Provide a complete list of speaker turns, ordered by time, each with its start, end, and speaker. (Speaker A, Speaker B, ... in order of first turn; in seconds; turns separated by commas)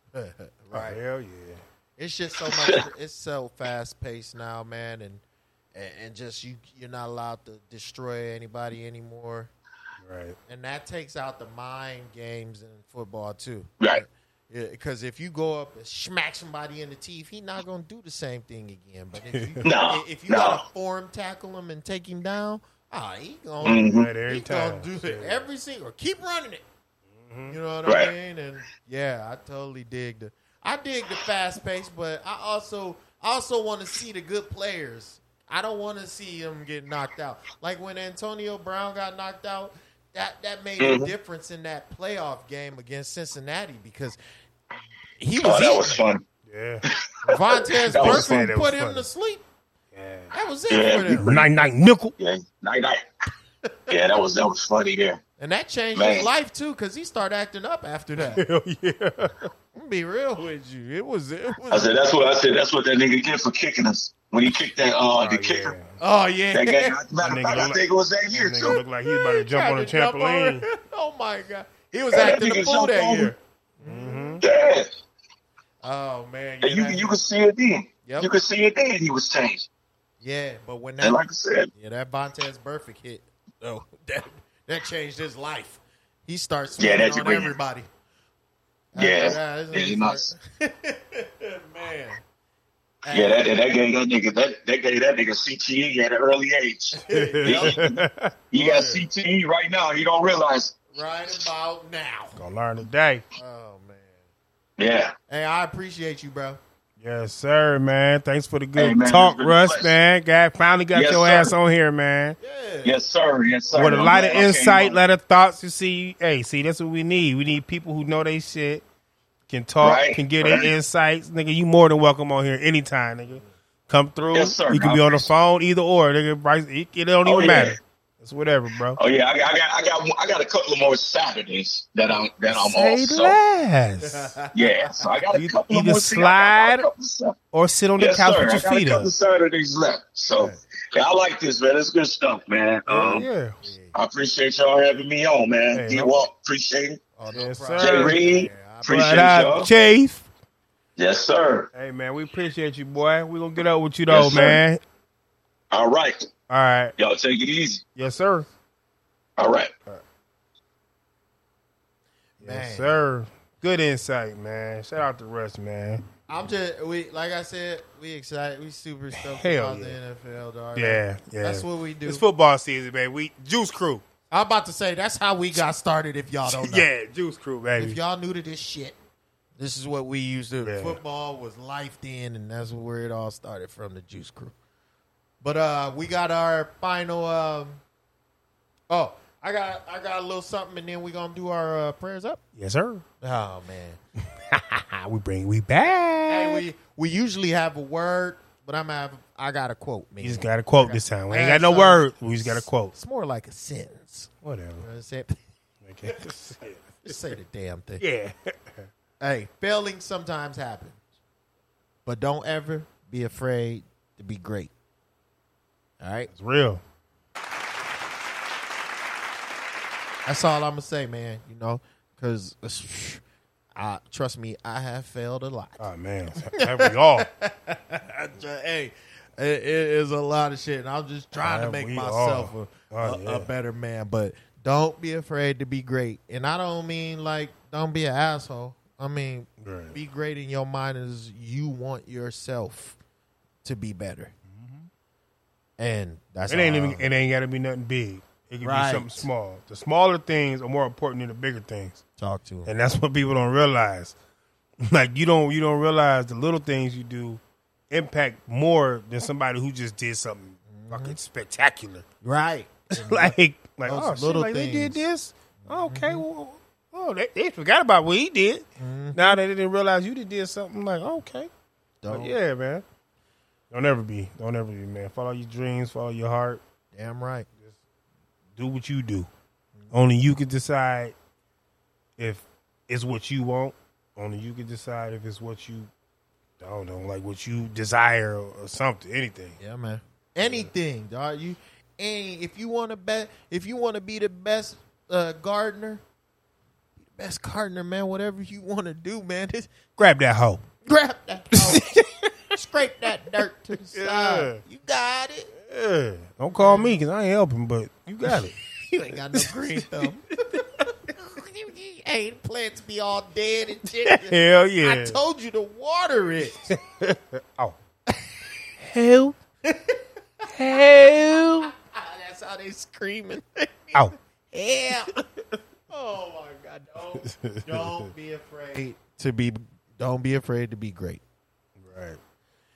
Speaker A: 0.1-1.0, Speaker B: 0.7-1.6, Speaker A: 2.0-5.2, Speaker C: 2.5-2.8, Speaker A: 5.7-9.5, Speaker B: 10.0-10.4, Speaker A: 10.5-26.6, Speaker C: 13.8-14.1, Speaker B: 19.3-19.7, Speaker C: 19.6-20.6, Speaker C: 23.6-24.1, Speaker B: 23.7-25.5, Speaker B: 27.2-27.6, Speaker A: 27.5-44.2, Speaker C: 27.9-28.1, Speaker C: 40.8-41.1, Speaker A: 45.2-46.0, Speaker C: 45.4-46.2, Speaker B: 46.5-46.8, Speaker C: 46.9-48.3, Speaker A: 47.3-49.4, Speaker B: 47.9-49.1, Speaker B: 49.9-50.4, Speaker A: 50.3-51.4, Speaker C: 50.7-51.5, Speaker B: 51.1-52.1, Speaker C: 52.2-53.0, Speaker C: 53.9-55.2, Speaker A: 55.4-58.4, Speaker C: 56.0-56.3, Speaker B: 58.3-59.5, Speaker A: 59.8-62.2, Speaker C: 61.7-65.8, Speaker B: 65.2-66.0, Speaker A: 66.0-67.0, Speaker C: 66.5-68.8, Speaker B: 67.2-70.7, Speaker A: 68.7-74.4, Speaker C: 72.1-73.3, Speaker B: 73.8-74.4, Speaker C: 74.4-74.9, Speaker A: 75.8-77.2, Speaker C: 76.6-79.7, Speaker A: 78.0-78.3, Speaker A: 80.2-81.2, Speaker C: 81.0-81.7, Speaker A: 81.7-87.9, Speaker C: 86.8-87.5, Speaker A: 88.9-92.2, Speaker C: 89.0-90.3, Speaker A: 93.0-93.5, Speaker C: 93.1-98.0, Speaker A: 97.1-97.9, Speaker B: 97.1-98.3, Speaker C: 98.5-100.8, Speaker A: 98.5-99.1, Speaker A: 100.9-102.4, Speaker B: 102.4-103.2, Speaker A: 103.4-104.2, Speaker C: 104.8-105.1, Speaker A: 105.3-106.6, Speaker B: 107.0-112.4, Speaker C: 108.8-110.0, Speaker C: 110.9-111.5, Speaker A: 112.4-113.0, Speaker C: 112.8-115.0, Speaker A: 113.7-114.3, Speaker B: 113.8-118.8, Speaker B: 119.5-129.0, Speaker C: 119.8-120.7, Speaker C: 124.3-125.3, Speaker C: 127.2-127.8, Speaker C: 129.0-133.4, Speaker B: 132.5-134.3, Speaker A: 134.0-135.2, Speaker C: 134.5-137.4, Speaker B: 135.3-136.9, Speaker B: 137.5-139.1, Speaker C: 138.0-143.3, Speaker B: 142.9-143.6, Speaker A: 143.6-143.9, Speaker C: 143.9-147.0, Speaker B: 145.7-146.2, Speaker A: 147.2-149.4, Speaker B: 147.3-148.2, Speaker C: 147.8-149.7, Speaker B: 148.9-150.3, Speaker C: 151.0-151.7, Speaker B: 151.7-154.8, Speaker C: 154.1-154.6, Speaker C: 155.7-156.3, Speaker B: 156.5-156.9, Speaker C: 157.0-157.8, Speaker B: 157.9-158.5, Speaker C: 159.4-159.7, Speaker B: 162.4-166.0, Speaker A: 162.4-162.9, Speaker A: 166.3-172.2, Speaker B: 169.1-170.0, Speaker B: 170.8-174.0, Speaker A: 174.3-176.9, Speaker B: 176.5-178.0, Speaker A: 177.8-178.9, Speaker A: 179.6-184.5, Speaker B: 180.6-181.0, Speaker A: 185.4-187.8, Speaker A: 188.9-192.4, Speaker B: 192.6-193.0, Speaker A: 193.2-194.0, Speaker B: 194.4-196.7, Speaker A: 196.3-205.4, Speaker B: 200.2-202.9, Speaker B: 204.4-204.9, Speaker B: 205.8-207.2, Speaker A: 207.0-208.1, Speaker B: 208.0-208.9, Speaker A: 209.2-211.0, Speaker A: 212.1-214.7, Speaker A: 216.0-216.3, Speaker B: 216.3-216.8, Speaker A: 220.3-223.2, Speaker A: 223.8-243.0, Speaker B: 225.8-227.3, Speaker B: 231.3-233.5, Speaker B: 239.6-240.0, Speaker A: 243.6-244.3, Speaker B: 244.5-244.9, Speaker A: 245.8-247.1, Speaker B: 246.5-252.0, Speaker A: 248.6-249.3, Speaker A: 252.2-252.7, Speaker B: 252.7-254.2, Speaker B: 254.8-257.4, Speaker B: 257.9-262.0, Speaker A: 260.7-261.2, Speaker A: 262.2-263.4, Speaker B: 262.9-271.5, Speaker A: 263.9-265.1, Speaker A: 265.6-266.2, Speaker A: 268.8-269.4, Speaker A: 272.0-272.4, Speaker B: 272.1-272.8, Speaker B: 273.7-276.6, Speaker A: 276.9-277.5, Speaker B: 278.6-279.3, Speaker B: 279.9-281.1, Speaker B: 282.2-285.9, Speaker B: 286.6-289.6, Speaker A: 289.6-296.0, Speaker B: 290.4-290.7, Speaker A: 297.1-299.8, Speaker B: 299.9-300.6, Speaker A: 300.8-301.9, Speaker B: 301.5-302.3, Speaker A: 302.5-305.5, Speaker B: 303.9-304.6, Speaker B: 305.6-308.6, Speaker A: 306.6-307.0, Speaker A: 308.9-310.6, Speaker B: 309.1-310.9, Speaker A: 311.1-316.7, Speaker B: 314.1-315.2, Speaker B: 316.5-317.8, Speaker B: 318.8-319.4, Speaker A: 319.6-320.0, Speaker B: 320.5-321.7, Speaker A: 320.6-325.2, Speaker A: 325.9-331.2, Speaker B: 327.2-328.1, Speaker B: 331.8-332.2